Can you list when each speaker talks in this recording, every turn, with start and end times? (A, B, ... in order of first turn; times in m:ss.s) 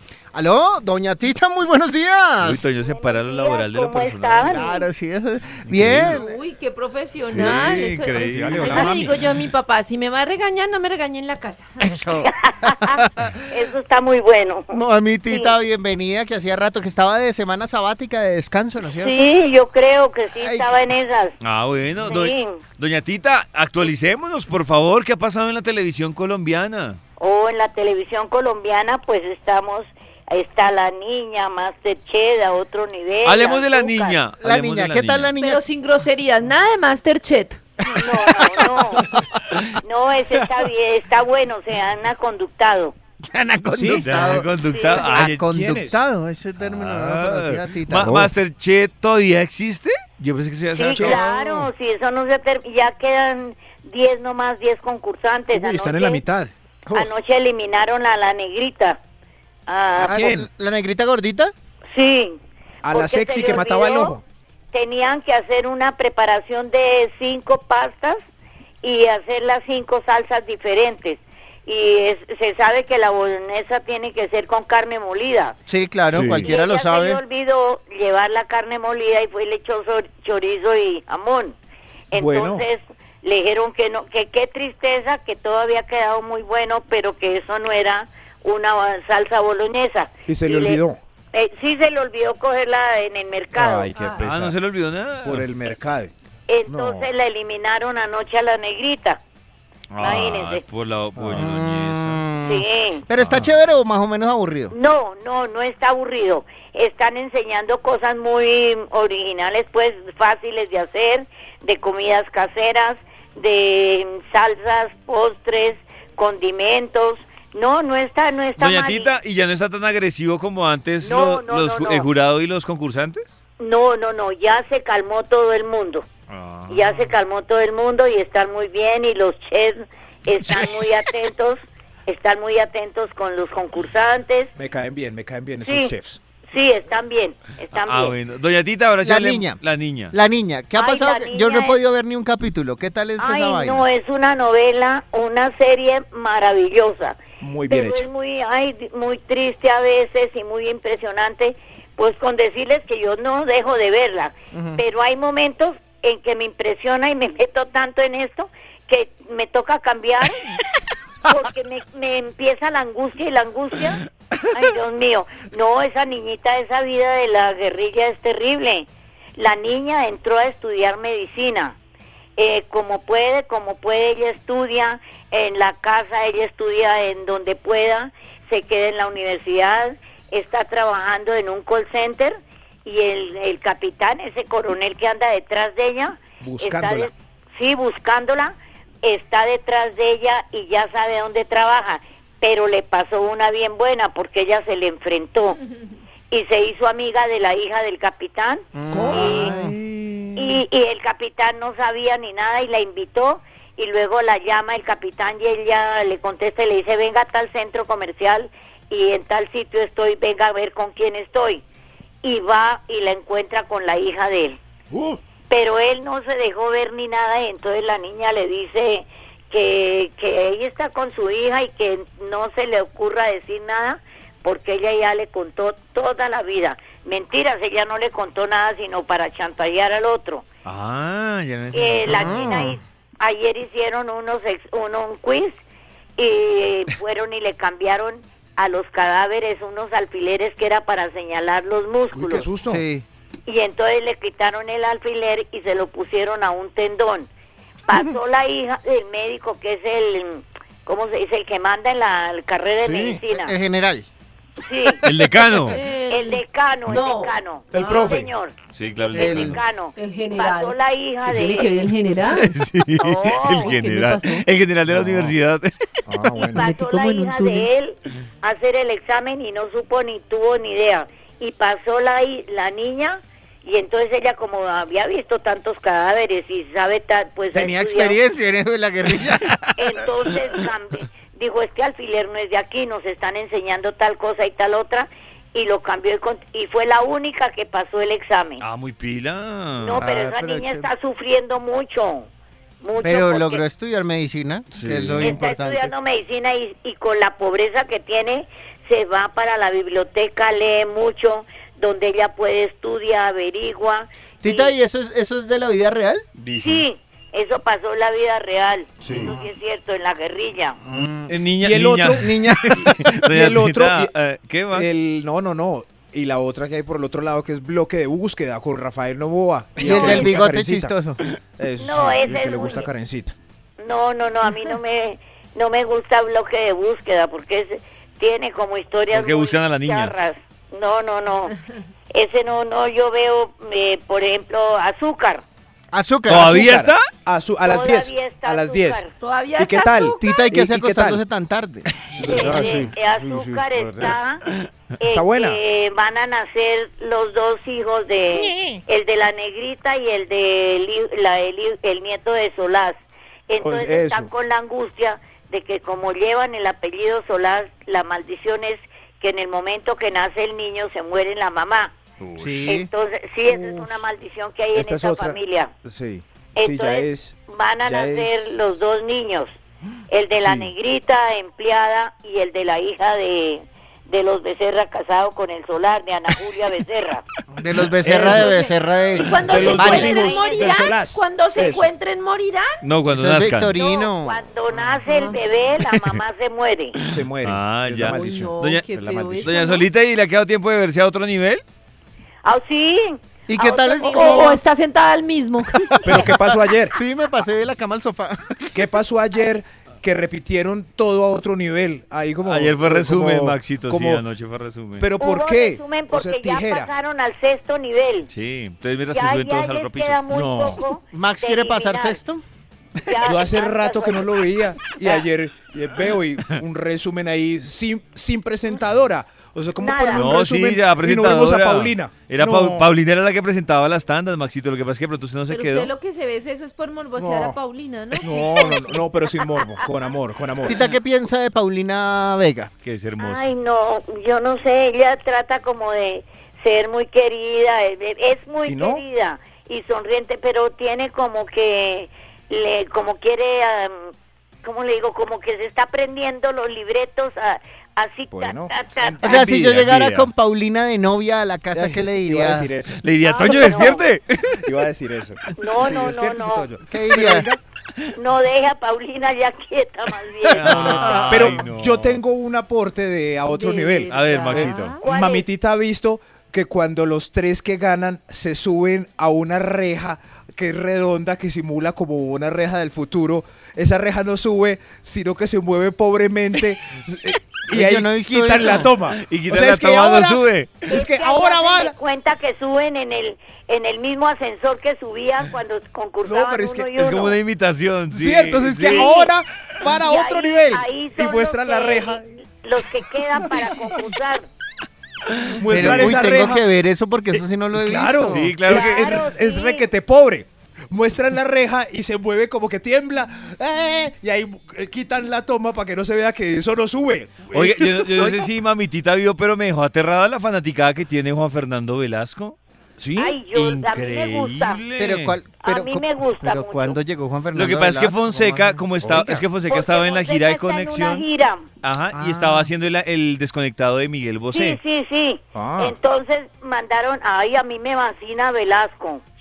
0:00.3-0:02.6 A
0:02.4-0:04.7 B
0:02.8-0:04.8 C
0:04.5-0:06.4 A
0:05.7-0:06.2 B
0:06.0-0:11.8 D
0:07.3-0:09.1 B
0:07.3-0:09.2 E
0:11.8-0:13.3 A
0:12.2-0:14.7 C
0:14.7-0:19.2 A
0:15.3-0:15.5 C
0:19.0-0:21.4 C
0:20.4-0:20.7 A
0:21.4-0:27.0 B
0:22.1-0:22.6 C
0:27.2-0:34.2 C
0:33.2-0:35.3 B
0:34.4-0:35.6 A
0:35.4-0:37.6 D
0:37.9-0:39.1 C
0:38.0-0:39.3 A
0:39.8-0:43.0 C
0:43.2-0:48.3 A
0:43.7-0:44.2 E
0:44.0-0:45.4 B
0:44.7-0:45.3 C
0:45.3-0:46.0 E
0:46.6-0:51.2 B
0:48.0-0:48.3 E
0:50.7-0:56.2 C
0:51.0-0:51.6 E
0:55.5-0:56.5 E
0:56.9-0:59.0 C
0:59.7-1:00.3 C
1:00.0-1:01.5 A
1:00.1-1:00.4 E
1:01.9-1:02.4 C
1:02.8-1:04.2 E
1:02.9-1:04.2 C
1:04.7-1:08.2 C
1:08.8-1:15.6 C
1:15.7-1:17.2 A
1:16.1-1:16.5 B
1:16.3-1:21.6 C
1:22.1-1:30.8 C
1:22.1-1:22.7 E
1:30.3-1:31.0 E
1:31.3-1:33.9 C
1:33.5-1:34.6 E
1:34.0-1:34.2 D
1:34.2-1:35.5 B
1:35.2-1:36.1 E
1:36.5-1:39.2 C
1:36.7-1:37.1 E
1:39.9-1:42.2 B
1:40.0-1:40.6 C
1:41.2-1:41.5 E
1:41.4-1:44.8 A
1:42.4-1:43.0 C
1:44.7-1:59.1 C
1:58.6-2:03.4 B
2:01.0-2:02.1 C
2:03.6-2:06.1 C
2:06.3-2:07.0 B
2:06.7-2:14.5 C
2:14.6-2:16.2 E
2:15.6-2:15.9 C
2:16.5-2:18.2 C
2:17.7-2:20.2 B
2:19.0-2:19.6 A
2:20.1-2:23.8 A
2:20.8-2:21.8 C
2:23.2-2:40.6 C
2:27.4-2:28.1 E
2:34.5-2:34.8 A
2:41.2-2:51.8 C
2:52.4-3:15.6 C
3:06.4-3:07.1 E
3:16.3-3:19.5 C
3:18.7-3:19.8 A
3:18.9-3:20.6 E
3:20.4-3:31.6 C
3:32.2-3:34.6 C
3:34.9-3:35.2 E
3:35.5-3:50.4 C
3:50.6-3:52.6 B
3:51.7-3:55.6 C
3:52.1-3:52.8 A
3:56.2-4:02.5 C
4:02.1-4:02.8 E
4:02.7-4:03.0 A
4:03.4-4:07.3 C
4:07.9-4:13.6 C
4:12.8-4:13.2 E
4:13.3-4:14.1 A
4:14.6-4:15.0 C
4:15.0-4:15.8 B
4:15.7-4:17.3 D
4:16.1-4:18.5 C
4:17.7-4:18.3 E
4:18.7-4:19.6 B
4:19.1-4:21.9 C
4:19.1-4:19.6 A
4:20.0-4:22.5 D
4:22.3-4:25.7 B
4:23.0-4:23.8 C
4:23.6-4:24.4 D
4:24.9-4:25.4 E
4:26.1-4:26.7 E
4:26.4-4:27.7 D
4:26.4-4:38.2 C
4:37.5-4:40.5 A
4:39.8-4:48.6 C
4:48.6-4:50.0 B
4:49.8-4:52.3 C
4:50.0-4:50.9 A
4:52.8-4:53.6 C
4:53.0-4:55.9 A
4:54.8-4:55.4 B
4:55.2-5:04.7 C
5:04.4-5:06.2 A
5:06.4-5:06.8 B
5:06.6-5:10.8 C
5:09.0-5:09.4 E
5:09.1-5:09.4 A
5:10.8-5:11.4 A
5:11.3-5:14.9 B
5:11.6-5:14.1 E
5:12.2-5:12.9 A
5:14.7-5:20.9 E
5:19.8-5:21.2 A
5:19.8-5:20.4 C
5:21.6-5:23.4 E
5:21.8-5:22.9 C
5:23.8-5:31.6 C
5:29.1-5:30.1 B
5:32.1-5:35.4 C
5:35.9-5:36.6 A
5:36.3-5:37.1 B
5:36.3-5:41.2 E
5:37.6-5:39.1 C
5:39.2-5:40.5 D
5:40.2-5:41.9 A
5:42.1-5:44.2 E
5:42.2-5:44.4 C
5:45.0-5:53.0 C
5:45.1-5:45.6 E
5:48.4-5:48.8 A
5:53.5-6:01.9 C
5:53.6-5:54.3 E
6:02.2-6:02.7 B
6:02.4-6:02.9 A
6:02.7-6:05.7 C
6:04.7-6:08.8 E
6:06.6-6:09.5 C
6:10.1-6:17.2 C
6:17.5-6:20.1 A
6:18.0-6:18.6 E
6:18.1-6:22.8 D
6:19.4-6:21.9 E
6:19.5-6:20.9 C
6:22.8-6:23.7 B
6:23.1-6:24.4 A
6:23.8-6:27.0 C
6:25.1-6:25.4 D
6:27.0-6:28.9 B
6:27.1-6:29.6 E
6:28.1-6:29.8 D
6:29.4-6:31.6 B
6:32.4-6:34.6 C
6:33.5-6:34.6 A
6:34.0-6:36.3 D
6:35.9-6:38.8 A
6:36.0-6:37.0 E
6:38.7-6:44.2 E
6:42.4-6:45.1 B
6:45.0-6:46.9 E
6:45.2-6:48.3 C
6:48.3-6:50.2 B
6:49.1-6:52.2 C
6:50.3-6:50.8 E
6:51.1-6:52.4 A
6:53.0-6:54.3 C
6:53.2-7:02.9 E
6:54.8-6:55.3 C
6:59.8-7:00.3 C
7:00.1-7:05.9 B
7:05.5-7:09.1 D
7:07.2-7:07.6 E
7:08.2-7:10.8 E
7:10.6-7:12.7 A
7:12.8-7:13.5 B
7:13.2-7:24.1 C
7:18.7-7:19.0 E
7:24.6-7:29.4 C
7:28.3-7:29.4 E
7:29.2-7:32.7 A
7:29.2-7:30.3 B
7:31.7-7:34.0 E
7:33.0-7:34.7 B
7:33.2-7:34.0 C
7:34.6-7:37.6 E
7:35.6-7:36.7 C
7:36.9-7:37.5 A
7:38.1-7:41.4 C
7:40.4-7:42.2 B
7:40.6-8:02.0 E
7:40.6-7:41.5 A
7:43.5-7:45.0 D
7:44.1-7:45.0 B
7:45.0-7:45.5 C
7:57.7-7:58.9 A
7:58.4-8:00.9 B
8:00.9-8:07.4 C
8:06.2-8:07.3 E
8:07.0-8:09.1 B
8:08.1-8:12.2 E
8:08.8-8:09.3 C
8:10.0-8:14.5 C
8:13.4-8:14.0 E
8:15.5-8:16.2 B
8:15.6-8:16.6 E
8:15.7-8:18.5 A
8:17.7-8:28.5 E
8:18.2-8:19.2 B
8:18.7-8:19.9 C
8:27.5-8:32.6 B
8:33.0-8:33.4 E
8:33.1-8:34.8 C
8:33.5-8:35.4 B
8:35.0-8:38.8 A
8:35.6-8:37.0 C
8:37.5-8:41.2 B
8:39.0-8:39.4 E
8:39.7-8:41.7 C
8:41.8-8:44.8 B
8:42.1-8:42.7 A
8:44.5-8:49.2 C
8:45.5-8:45.9 E